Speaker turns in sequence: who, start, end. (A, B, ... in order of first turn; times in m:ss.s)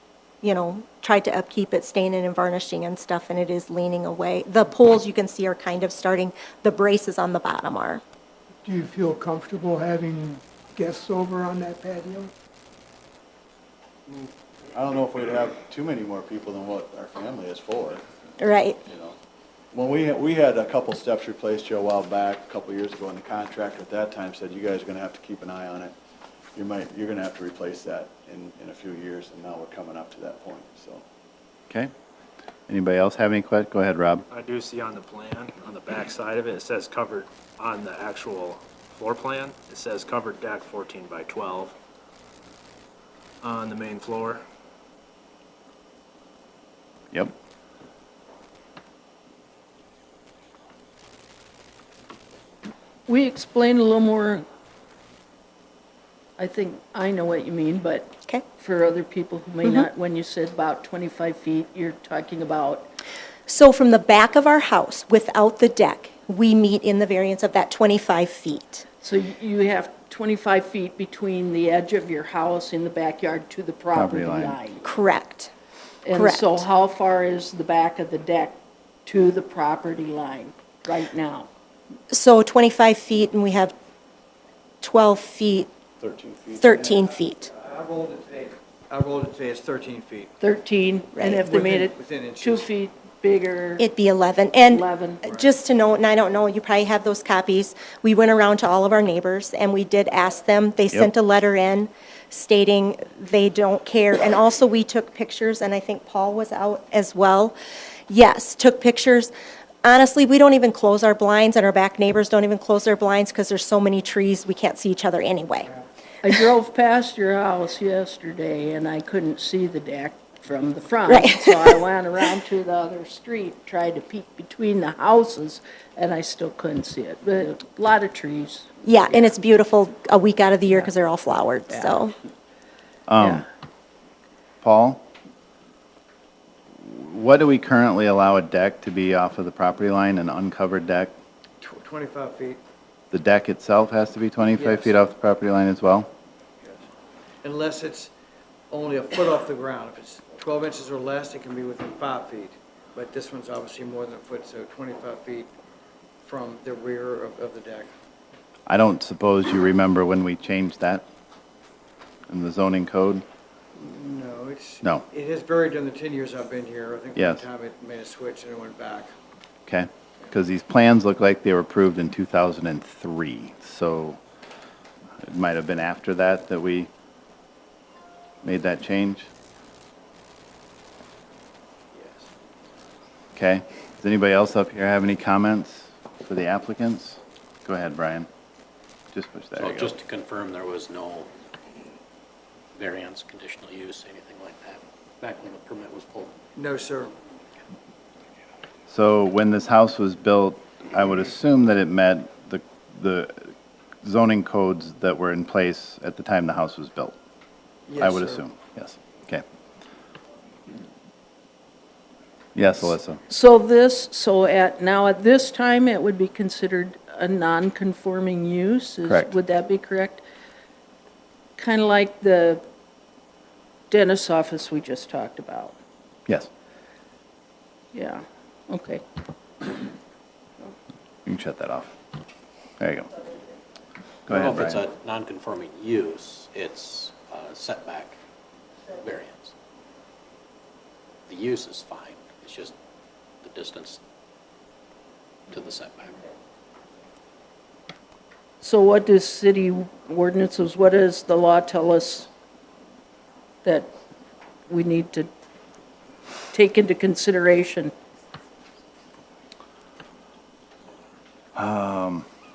0:00.4-0:08.0 A
0:08.6-0:12.3 B
0:14.1-0:18.0 C
0:18.4-0:18.8 A
0:18.8-0:19.1 C
0:19.7-0:25.9 C
0:26.5-0:31.0 C
0:32.7-0:34.2 D
0:34.3-0:41.7 E
0:43.4-0:44.4 E
0:53.1-0:54.4 F
0:56.4-1:02.9 F
1:03.5-1:08.8 A
1:09.0-1:14.8 F
1:13.9-1:14.6 D
1:14.8-1:15.5 A
1:16.0-1:21.5 F
1:16.1-1:16.6 A
1:22.1-1:23.7 A
1:24.8-1:25.7 A
1:26.0-1:26.6 C
1:26.5-1:27.5 A
1:26.7-1:27.0 G
1:27.6-1:30.3 G
1:30.4-1:33.8 F
1:31.1-1:31.5 A
1:31.5-1:32.7 G
1:33.8-1:47.5 A
1:34.7-1:35.2 F
1:48.1-1:49.3 A
1:49.8-1:55.8 A
1:56.2-2:08.7 F
2:01.1-2:01.6 A
2:08.8-2:12.1 A
2:13.1-2:13.4 D
2:13.2-2:13.4 F
2:14.6-2:15.0 D
2:16.8-2:21.1 D
2:21.6-2:22.6 G
2:23.1-2:26.1 D
2:24.6-2:24.9 G
2:27.4-2:28.1 G
2:28.7-2:35.5 G
2:36.2-2:37.9 G
2:38.7-2:41.0 D
2:42.3-2:43.2 D
2:43.8-2:49.1 G
2:47.2-2:47.4 D
2:49.7-2:54.2 D
2:55.2-2:56.9 D
2:58.4-2:59.3 D
3:02.0-3:02.2 H
3:03.3-3:08.3 D
3:09.1-3:09.9 D
3:09.5-3:11.3 H
3:12.7-3:16.3 H
3:16.6-3:17.1 G
3:18.9-3:23.5 D
3:24.0-3:27.1 D
3:27.9-3:28.4 G
3:28.0-3:29.4 D
3:32.5-3:33.2 D
3:33.3-3:40.2 F
3:39.0-3:39.3 D
3:41.6-3:42.6 F
3:43.9-3:45.8 F
3:47.9-3:49.0 F
3:51.2-3:51.9 D
3:52.8-3:53.1 D
3:54.3-3:54.8 D
3:54.3-3:58.1 H
3:59.0-3:59.5 H
4:01.3-4:02.7 H
4:03.4-4:04.0 H
4:05.5-4:06.2 H
4:08.6-4:12.3 F
4:13.6-4:13.9 F
4:14.7-4:15.3 F
4:16.5-4:17.9 F
4:21.5-4:22.2 D